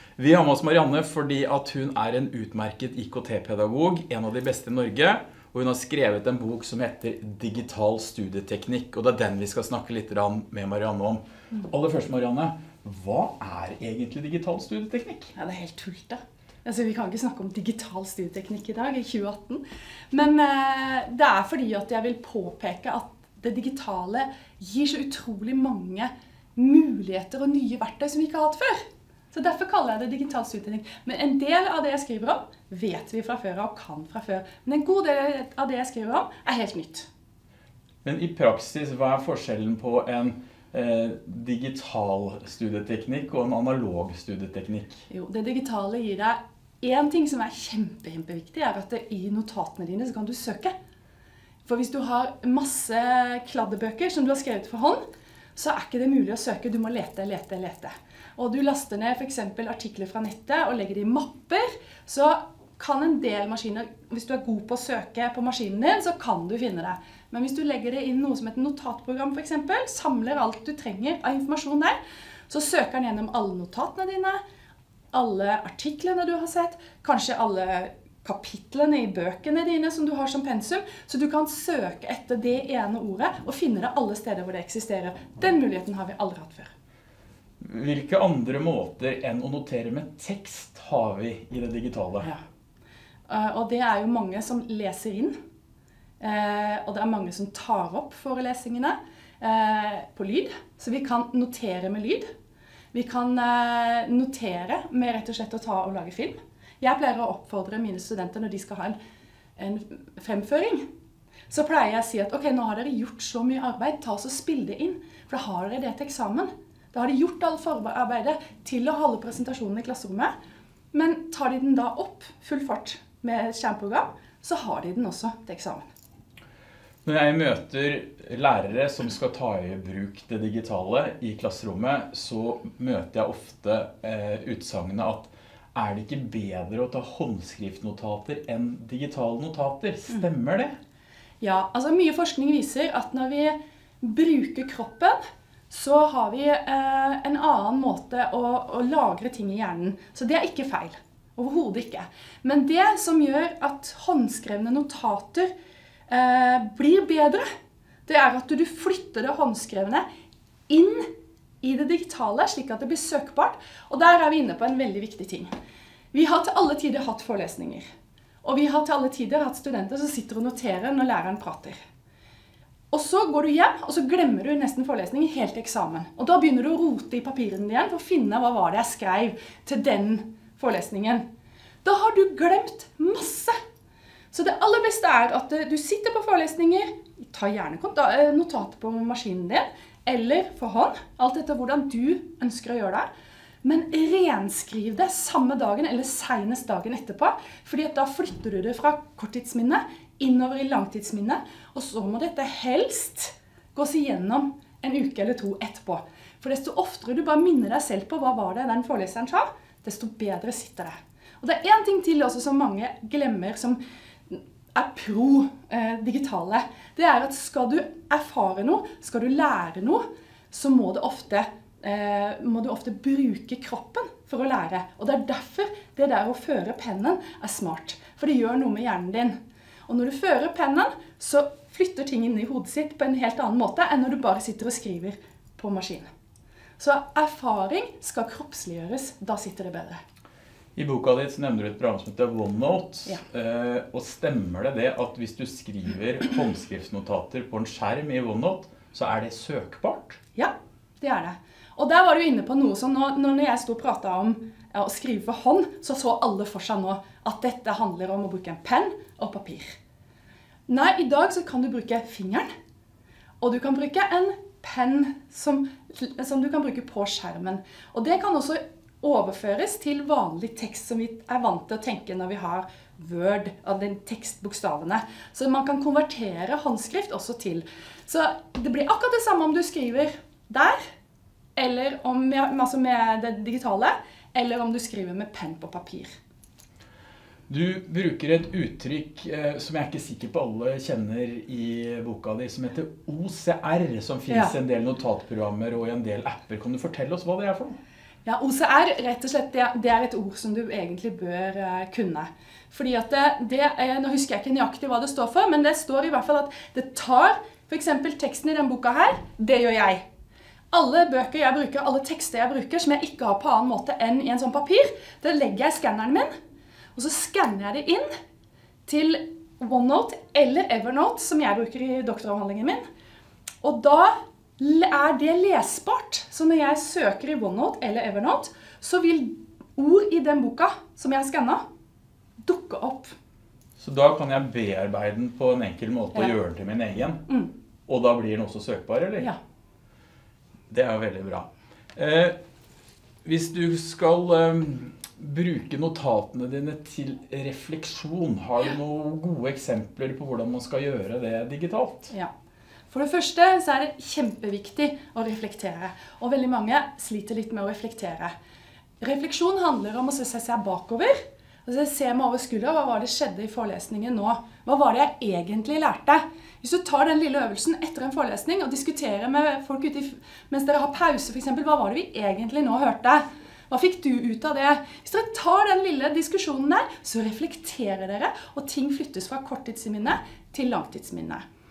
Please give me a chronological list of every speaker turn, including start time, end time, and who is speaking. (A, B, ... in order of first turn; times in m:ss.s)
0:00.2-0:15.3 A
0:15.3-0:37.1 B
0:38.0-0:45.0 A
0:45.1-0:50.7 B
0:51.6-0:55.0 B
0:55.6-1:14.4 B
1:15.1-1:26.7 B
1:27.6-1:32.3 A
1:33.3-1:35.3 B
1:36.2-1:42.2 B
1:42.9-1:49.0 B
1:49.6-1:50.8 B
1:51.5-2:00.3 B
2:00.9-2:05.9 B
2:07.0-2:20.7 A
2:21.4-2:25.2 B
2:25.7-2:35.5 B
2:36.1-2:37.4 B
2:38.0-2:40.0 B
2:40.7-2:41.1 B
2:41.6-2:45.5 B
2:46.1-2:47.8 B
2:48.4-2:51.8 B
2:52.9-3:01.2 B
3:01.8-3:03.5 B
3:04.3-3:13.1 B
3:13.6-3:49.4 B
3:49.9-3:56.1 B
3:56.8-4:00.0 B
4:00.8-4:10.2 A
4:10.4-4:19.8 B
4:20.7-4:22.5 B
4:23.4-4:40.8 B
4:41.6-4:46.1 B
4:47.5-4:57.8 A
4:54.3-4:54.5 B
4:58.2-5:10.0 B
5:10.7-5:16.3 B
5:16.9-5:18.1 B
5:18.8-5:22.8 B
5:23.6-5:31.6 B
5:32.4-5:33.1 B
5:33.8-5:37.3 A
5:37.9-5:39.3 A
5:40.7-5:42.4 A
5:43.2-5:52.1 A
5:52.9-5:58.3 B
5:59.0-6:21.4 B